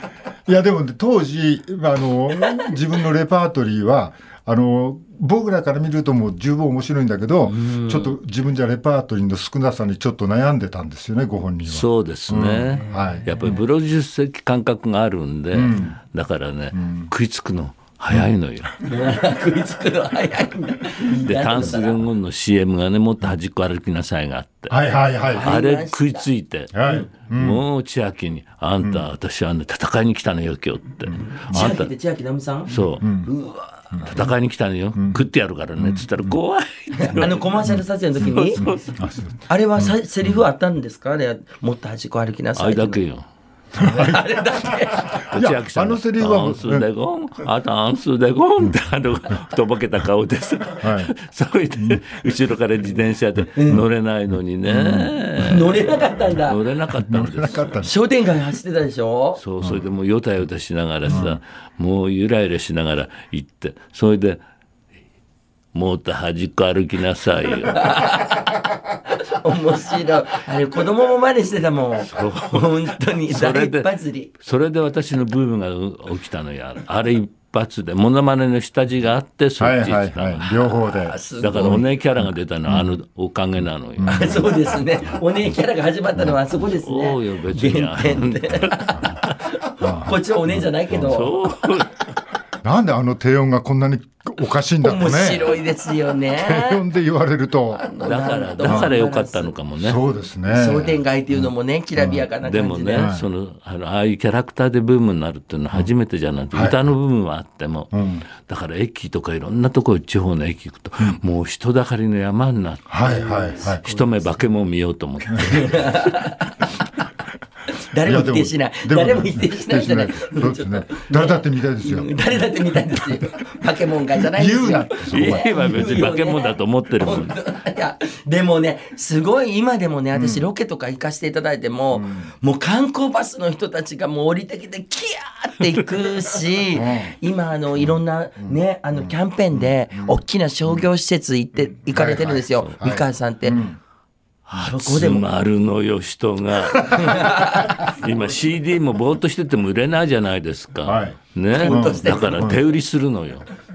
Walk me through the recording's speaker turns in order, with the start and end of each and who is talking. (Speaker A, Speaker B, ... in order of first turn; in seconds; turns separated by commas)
Speaker A: 0.5-13.5, Speaker B: 7.6-8.1, Speaker C: 11.6-18.7, Speaker B: 12.9-13.2, Speaker A: 15.5-16.0, Speaker A: 16.7-17.1, Speaker B: 18.8-22.1, Speaker C: 21.2-26.8, Speaker A: 24.7-25.5, Speaker B: 25.3-26.3, Speaker A: 26.7-27.6, Speaker C: 27.3-31.9, Speaker A: 28.8-29.1, Speaker A: 31.1-31.8, Speaker B: 31.2-34.0, Speaker C: 32.7-33.0, Speaker A: 32.7-33.3, Speaker A: 33.9-34.2, Speaker C: 34.1-37.5, Speaker A: 35.0-35.2, Speaker A: 35.8-36.4, Speaker B: 37.0-38.6, Speaker C: 38.2-39.1, Speaker A: 38.6-40.4, Speaker B: 39.5-43.0, Speaker C: 42.6-43.2, Speaker A: 43.8-44.7, Speaker B: 43.8-45.3, Speaker C: 45.3-57.8, Speaker A: 45.3-46.9, Speaker A: 50.8-51.1, Speaker A: 54.7-55.1, Speaker B: 55.4-56.6, Speaker A: 57.0-57.9, Speaker B: 57.8-59.4, Speaker C: 59.4-64.4, Speaker A: 61.1-61.4, Speaker C: 65.7-68.0, Speaker B: 67.7-74.3, Speaker C: 72.1-80.8, Speaker A: 79.6-82.9, Speaker B: 81.0-81.9, Speaker C: 81.4-84.5, Speaker A: 84.0-84.8, Speaker B: 84.1-91.7, Speaker C: 86.7-89.4, Speaker A: 89.8-91.3, Speaker C: 91.1-92.0, Speaker A: 92.6-95.6, Speaker B: 94.8-96.8, Speaker A: 96.3-97.9, Speaker B: 97.7-99.5, Speaker C: 98.0-100.0, Speaker A: 98.6-98.9, Speaker A: 99.8-102.3, Speaker B: 100.5-103.1, Speaker C: 102.4-113.0, Speaker A: 102.9-103.3, Speaker A: 106.5-106.8, Speaker A: 107.9-108.3, Speaker A: 112.9-113.8, Speaker B: 113.0-114.3, Speaker C: 113.7-116.1, Speaker A: 115.3-115.6, Speaker B: 115.4-116.7, Speaker B: 117.8-143.7, Speaker A: 118.0-123.3, Speaker A: 124.2-126.0, Speaker C: 125.1-127.3, Speaker A: 130.1-130.5, Speaker A: 131.9-132.3, Speaker A: 136.7-137.2, Speaker A: 137.8-140.9, Speaker A: 141.9-143.8, Speaker C: 144.5-153.5, Speaker B: 144.5-145.3, Speaker B: 146.8-147.9, Speaker A: 150.8-152.6, Speaker B: 151.5-152.6